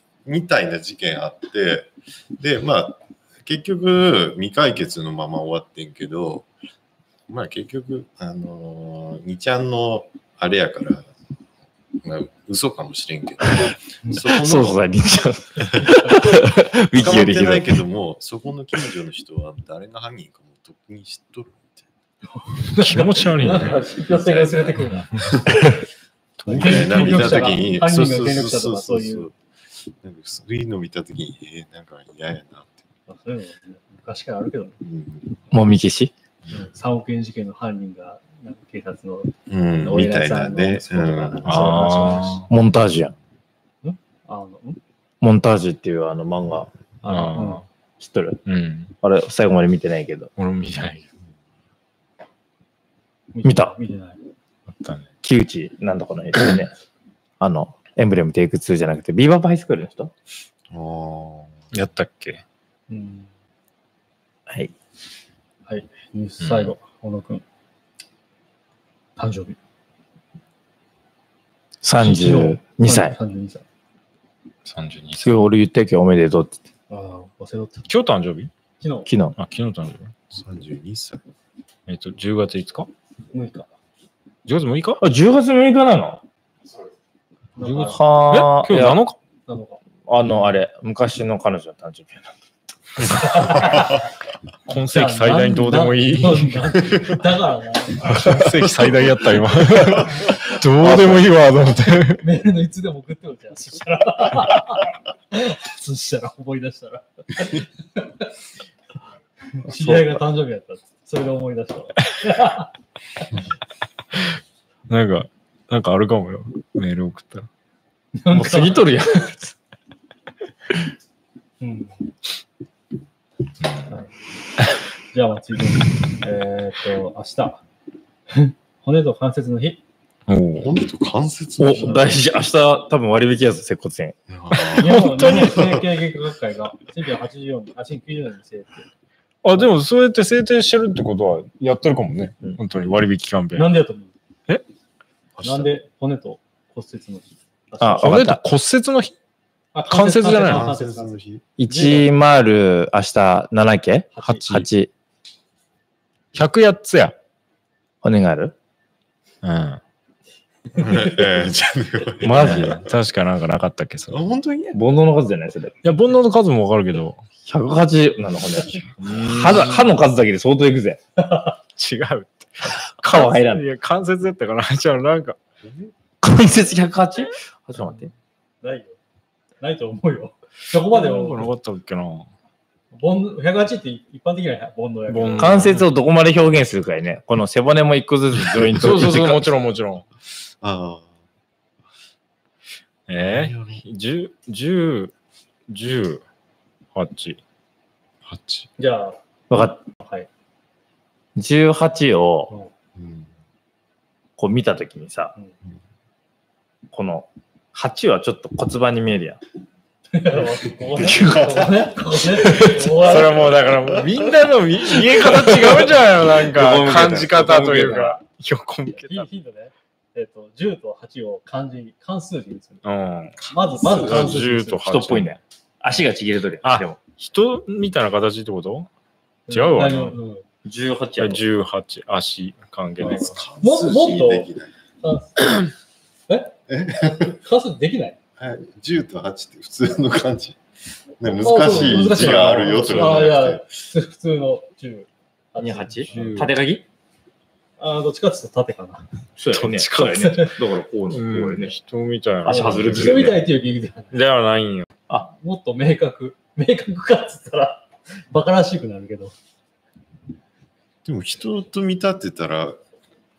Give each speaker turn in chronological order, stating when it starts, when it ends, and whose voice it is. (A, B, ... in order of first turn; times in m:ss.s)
0:00.2-0:06.5 A
0:07.3-0:11.1 A
0:12.0-0:14.9 A
0:14.2-0:17.7 B
0:15.8-0:16.2 C
0:16.9-0:21.8 A
0:22.3-0:25.8 C
0:22.7-0:23.8 D
0:23.4-0:25.6 A
0:25.1-0:25.5 D
0:26.4-0:27.6 D
0:26.4-0:29.3 A
0:26.5-0:29.3 C
0:30.0-0:32.8 A
0:33.1-0:34.8 C
0:34.8-0:35.3 A
0:35.5-0:36.1 B
0:36.5-0:42.5 C
0:39.5-0:42.0 A
0:41.4-0:42.5 D
0:42.5-0:43.1 B
0:43.8-0:44.8 C
0:45.2-0:46.7 B
0:47.0-0:47.6 C
0:47.0-0:47.6 D
0:48.0-0:48.4 B
0:48.4-0:48.9 D
0:49.0-0:50.3 B
0:50.4-0:51.0 D
0:53.3-0:54.2 C
0:53.4-0:53.7 B
0:54.7-0:55.0 D
0:55.2-0:56.7 B
0:57.4-1:00.1 B
1:00.7-1:01.5 A
1:01.7-1:02.4 D
1:02.9-1:03.3 C
1:05.7-1:07.4 C
1:06.4-1:06.7 D
1:09.2-1:09.6 C
1:11.8-1:13.2 B
1:12.0-1:13.6 C
1:14.6-1:15.4 D
1:15.2-1:16.6 B
1:16.9-1:17.9 C
1:17.9-1:18.5 D
1:18.8-1:19.1 C
1:19.0-1:19.3 B
1:19.4-1:20.1 D
1:20.3-1:21.2 A
1:21.9-1:22.9 D
1:23.3-1:23.7 C
1:24.4-1:25.0 D
1:25.0-1:26.2 B
1:27.6-1:28.0 C
1:27.6-1:29.2 D
1:27.8-1:29.0 B
1:29.5-1:29.8 C
1:30.1-1:32.3 B
1:33.2-1:34.0 C
1:34.7-1:37.1 D
1:34.7-1:38.4 C
1:38.0-1:42.2 D
1:38.1-1:40.2 A
1:40.8-1:41.2 B
1:42.2-1:48.3 C
1:49.6-1:52.7 C
1:49.8-1:50.2 B
1:54.9-1:57.5 D
1:58.2-1:58.9 C
1:58.3-1:59.5 B
2:01.6-2:01.9 C
2:05.1-2:07.6 C
2:08.3-2:09.8 C
2:10.3-2:10.7 D
2:10.6-2:12.2 A
2:11.6-2:14.2 B
2:14.3-2:15.8 A
2:14.5-2:15.8 D
2:14.8-2:18.8 C
2:19.4-2:23.7 D
2:23.5-2:24.1 C
2:25.4-2:25.7 A
2:25.4-2:28.1 C
2:27.8-2:28.4 B
2:28.0-2:29.1 D
2:29.7-2:31.1 C
2:29.8-2:30.7 D
2:30.3-2:31.4 A
2:31.6-2:34.9 B
2:31.7-2:32.1 C
2:34.1-2:34.4 C
2:34.4-2:34.7 D
2:36.3-2:37.1 D
2:38.0-2:38.5 B
2:39.4-2:39.8 D
2:40.8-2:41.0 C
2:40.8-2:42.9 A
2:42.2-2:42.8 B
2:42.2-2:44.2 D
2:44.1-2:44.8 A
2:44.7-2:45.8 B
2:45.8-2:47.2 D
2:47.4-2:51.0 B
2:49.0-2:49.9 D
2:51.2-2:51.5 C
2:51.8-2:55.4 D
2:53.0-2:53.6 B
2:55.6-2:55.9 A
2:56.2-2:58.1 B
2:58.6-2:59.0 C
2:59.6-3:01.5 C
3:00.7-3:02.3 D
3:02.9-3:05.7 C
3:05.1-3:05.9 D
3:05.4-3:09.5 B
3:08.6-3:10.0 D
3:10.6-3:11.1 A
3:13.1-3:15.1 D
3:13.3-3:13.8 A
3:15.7-3:16.2 D
3:16.9-3:17.4 D
3:18.2-3:18.7 D
3:18.8-3:19.2 C
3:19.5-3:19.8 B
3:19.9-3:20.3 C
3:21.4-3:22.5 B
3:23.0-3:23.3 A
3:24.4-3:25.3 B
3:26.9-3:29.4 B
3:30.1-3:33.8 C
3:30.9-3:31.8 A
3:31.1-3:31.4 B
3:32.5-3:39.3 D
3:33.8-3:34.2 A
3:35.5-3:35.9 B
3:36.5-3:38.2 B
3:36.9-3:37.2 A
3:38.9-3:42.8 C
3:42.8-3:45.3 D
3:43.4-3:44.3 A
3:43.5-3:44.8 C
3:44.8-3:47.0 B
3:46.6-3:48.9 D
3:49.5-3:50.4 C
3:49.5-3:50.2 D
3:50.6-3:51.4 B
3:51.2-3:53.4 D
3:53.0-3:54.7 A
3:53.6-3:54.5 C
3:55.0-3:55.7 C
3:56.3-3:56.5 C
3:56.7-3:57.4 A
3:57.0-3:58.2 C
3:58.4-4:00.6 A
4:01.2-4:03.8 A
4:01.2-4:06.2 C
4:01.5-4:03.4 D
4:05.6-4:06.8 B
4:06.1-4:06.5 D
4:07.8-4:09.0 C
4:09.4-4:11.7 B
4:09.5-4:10.5 D
4:10.0-4:10.6 C
4:11.1-4:13.4 D
4:12.4-4:13.4 B
4:12.4-4:14.2 C
4:14.1-4:14.9 D
4:15.3-4:19.3 C
4:21.0-4:22.8 A